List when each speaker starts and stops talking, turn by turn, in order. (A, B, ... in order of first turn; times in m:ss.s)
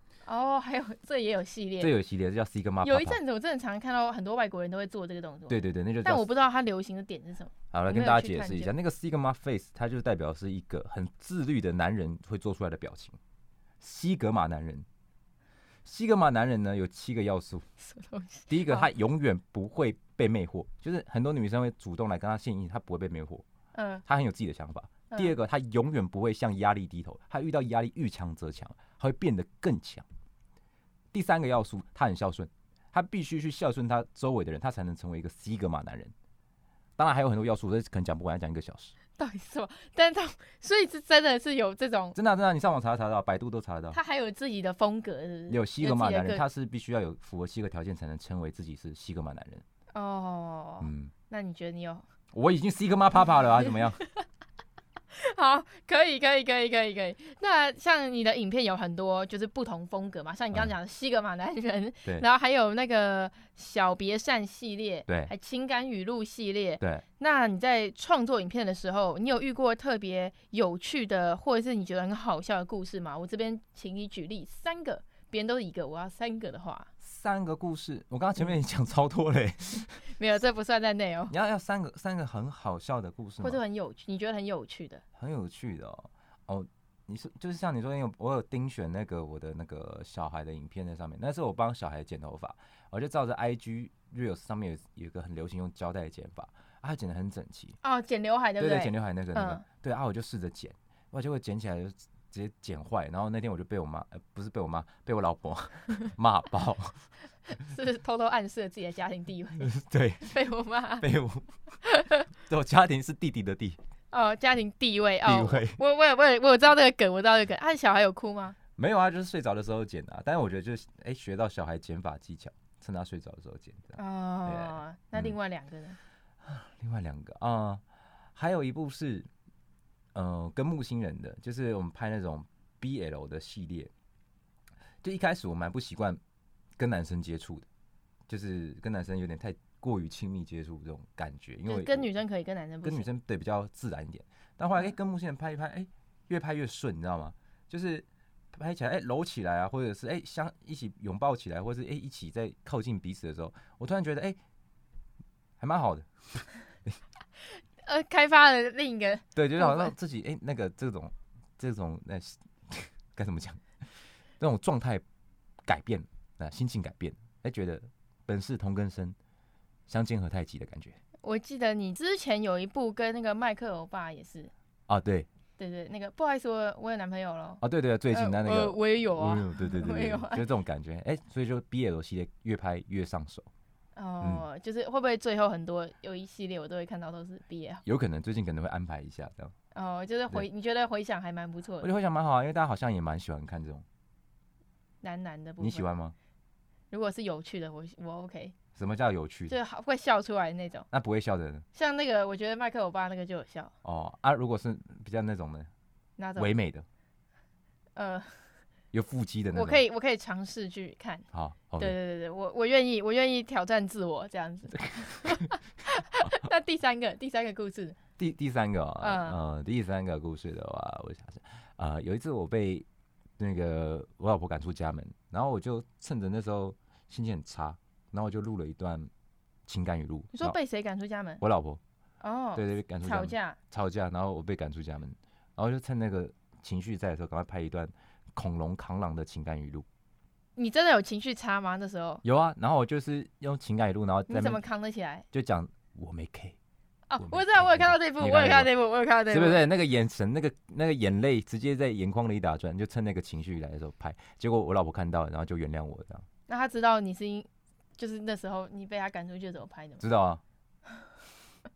0:00.3-0:01.9 A
0:01.8-0:03.2 B
0:02.8-0:08.7 A
0:05.5-0:06.3 B
0:07.7-0:13.2 B
0:13.8-0:14.9 B
0:15.8-0:17.7 B
0:17.8-0:18.9 A
0:18.5-0:23.4 B
0:23.7-0:24.0 A
0:24.0-0:30.1 B
0:31.1-0:36.1 B
0:37.0-0:38.9 B
0:39.2-0:42.2 A
0:42.2-0:44.0 B
0:43.9-0:46.4 A
0:45.5-0:49.6 B
0:49.9-0:52.0 A
0:50.8-0:51.1 B
0:52.3-0:54.0 B
0:55.1-1:16.9 A
1:05.1-1:05.3 B
1:17.0-1:20.0 B
1:20.1-1:21.3 A
1:21.3-1:23.6 B
1:23.4-1:25.0 A
1:25.2-1:37.8 B
1:37.8-1:39.6 A
1:38.6-1:47.0 B
1:47.6-1:49.7 A
1:49.6-1:50.3 B
1:50.2-1:51.1 A
1:51.0-1:51.5 B
1:51.8-1:52.1 A
1:52.5-1:53.8 B
1:54.1-1:58.6 A
1:55.2-1:55.8 B
1:58.8-2:05.4 B
2:04.0-2:06.0 A
2:06.4-2:07.8 B
2:08.4-2:09.3 B
2:10.1-2:13.9 B
2:15.0-2:16.2 B
2:16.8-2:17.7 B
2:18.3-2:22.1 B
2:21.7-2:23.1 A
2:22.8-2:34.4 B
2:35.6-2:37.0 B
2:37.8-2:39.9 A
2:39.4-2:45.0 B
2:45.6-2:49.2 B
2:49.9-2:51.0 B
2:51.2-2:54.5 A
2:54.9-2:55.3 B
2:55.6-3:00.5 A
2:57.6-3:03.5 B
3:04.0-3:07.8 A
3:07.8-3:09.5 B
3:09.7-3:11.9 A
3:11.8-3:13.8 B
3:15.0-3:15.9 A
3:15.6-3:16.2 B
3:16.9-3:18.5 A
3:18.8-3:19.6 B
3:19.5-3:20.9 A
3:20.9-3:21.7 B
3:21.7-3:23.7 A
3:23.8-3:25.7 B
3:26.2-3:26.5 A
3:26.4-3:26.9 B
3:28.0-3:28.6 A
3:28.9-3:29.8 B
3:29.5-3:31.2 A
3:31.3-3:32.0 B
3:31.8-3:38.0 A
3:34.8-3:35.5 B
3:38.2-3:42.9 B
3:39.0-3:39.4 A
3:43.4-3:49.1 B
3:49.7-3:50.6 B
3:50.3-3:51.4 A
3:51.4-3:51.8 B
3:52.2-3:53.6 A
3:52.6-3:59.9 B
4:00.6-4:02.2 A
4:02.2-4:04.6 B
4:04.3-4:05.2 A
4:05.3-4:06.6 B
4:07.1-4:09.6 A
4:07.2-4:08.7 B
4:09.3-4:16.3 B
4:16.5-4:20.0 A
4:20.0-4:20.4 B